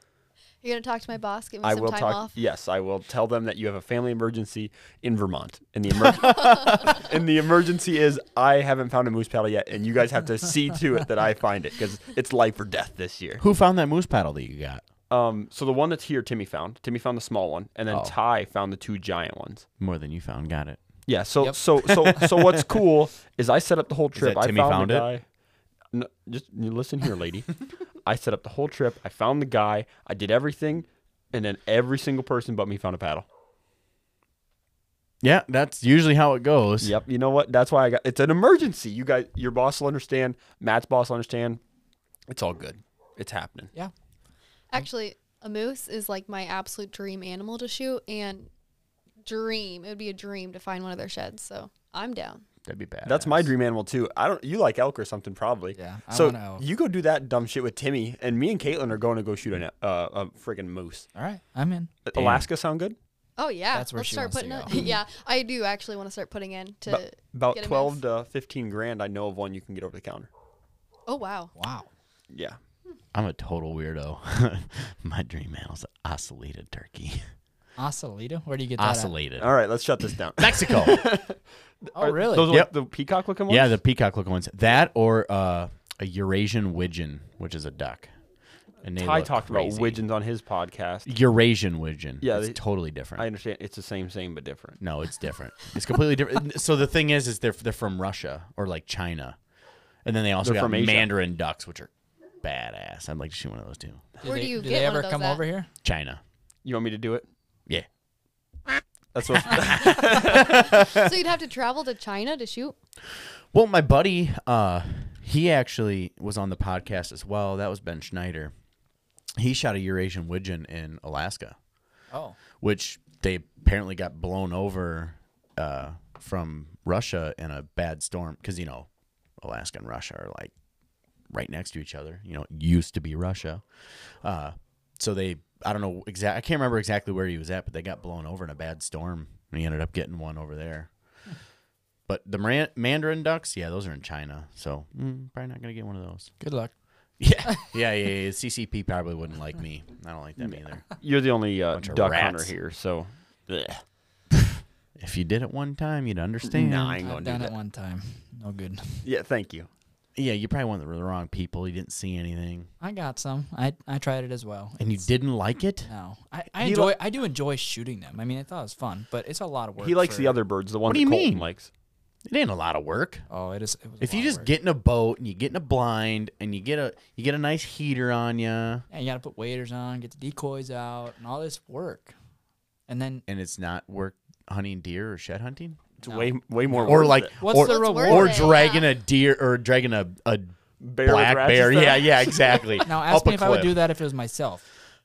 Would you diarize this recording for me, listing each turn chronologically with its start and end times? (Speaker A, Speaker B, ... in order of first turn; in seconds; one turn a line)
Speaker A: 0.6-2.3
Speaker B: 1.6-13.4
Speaker C: 6.1-7.0
Speaker C: 13.4-14.8
Speaker B: 15.1-19.6
Speaker C: 17.9-18.1
Speaker C: 19.8-21.2
Speaker B: 21.1-25.3
Speaker D: 21.4-22.2
Speaker C: 24.1-25.1
Speaker B: 25.9-33.2
Speaker C: 35.2-37.0
Speaker B: 36.8-41.6
Speaker B: 42.3-43.7
Speaker A: 44.7-48.5
Speaker A: 49.2-52.4
Speaker C: 52.6-53.5
Speaker B: 53.0-61.1
Speaker D: 55.7-56.6
Speaker D: 61.1-61.9
Speaker B: 62.0-62.9
Speaker C: 62.1-62.5
Speaker A: 63.4-68.0
Speaker D: 63.7-64.8
Speaker B: 66.9-70.3
Speaker A: 71.0-71.5
Speaker D: 71.5-71.9
Speaker B: 72.3-72.6
Speaker C: 73.1-77.3
Speaker D: 77.8-79.1
Speaker C: 78.8-81.0
Speaker B: 79.4-83.7
Speaker D: 81.9-82.5
Speaker C: 83.5-88.1
Speaker C: 88.8-90.0
Speaker B: 88.8-91.1
Speaker C: 91.0-93.3
Speaker B: 92.2-94.8
Speaker C: 94.8-99.4
Speaker C: 100.0-104.1
Speaker B: 100.4-101.1
Speaker D: 104.2-105.7
Speaker A: 104.2-105.4
Speaker C: 105.8-106.2
Speaker B: 106.6-107.3
Speaker B: 109.1-110.5
Speaker C: 110.2-110.7
Speaker A: 110.9-112.8
Speaker C: 113.4-118.5
Speaker C: 119.4-121.6
Speaker D: 122.1-122.4
Speaker C: 122.6-130.5
Speaker C: 131.3-141.4
Speaker C: 142.1-146.4
Speaker D: 146.4-147.8
Speaker C: 147.2-151.1
Speaker B: 150.4-153.8
Speaker C: 151.7-152.5
Speaker C: 155.0-157.0
Speaker B: 156.4-157.5
Speaker D: 157.0-159.1
Speaker B: 159.0-159.7
Speaker C: 160.1-162.7
Speaker D: 162.8-165.2
Speaker C: 164.8-165.9
Speaker D: 165.8-170.3
Speaker B: 166.6-166.9
Speaker B: 169.8-171.7
Speaker C: 170.9-171.5
Speaker C: 172.2-173.3
Speaker D: 173.3-174.5
Speaker C: 174.0-178.8
Speaker D: 178.9-182.1
Speaker D: 182.9-183.2
Speaker C: 183.3-185.8
Speaker B: 186.0-187.3
Speaker D: 186.0-188.5
Speaker C: 186.8-193.7
Speaker A: 187.5-188.9
Speaker B: 190.8-192.7
Speaker D: 192.8-194.7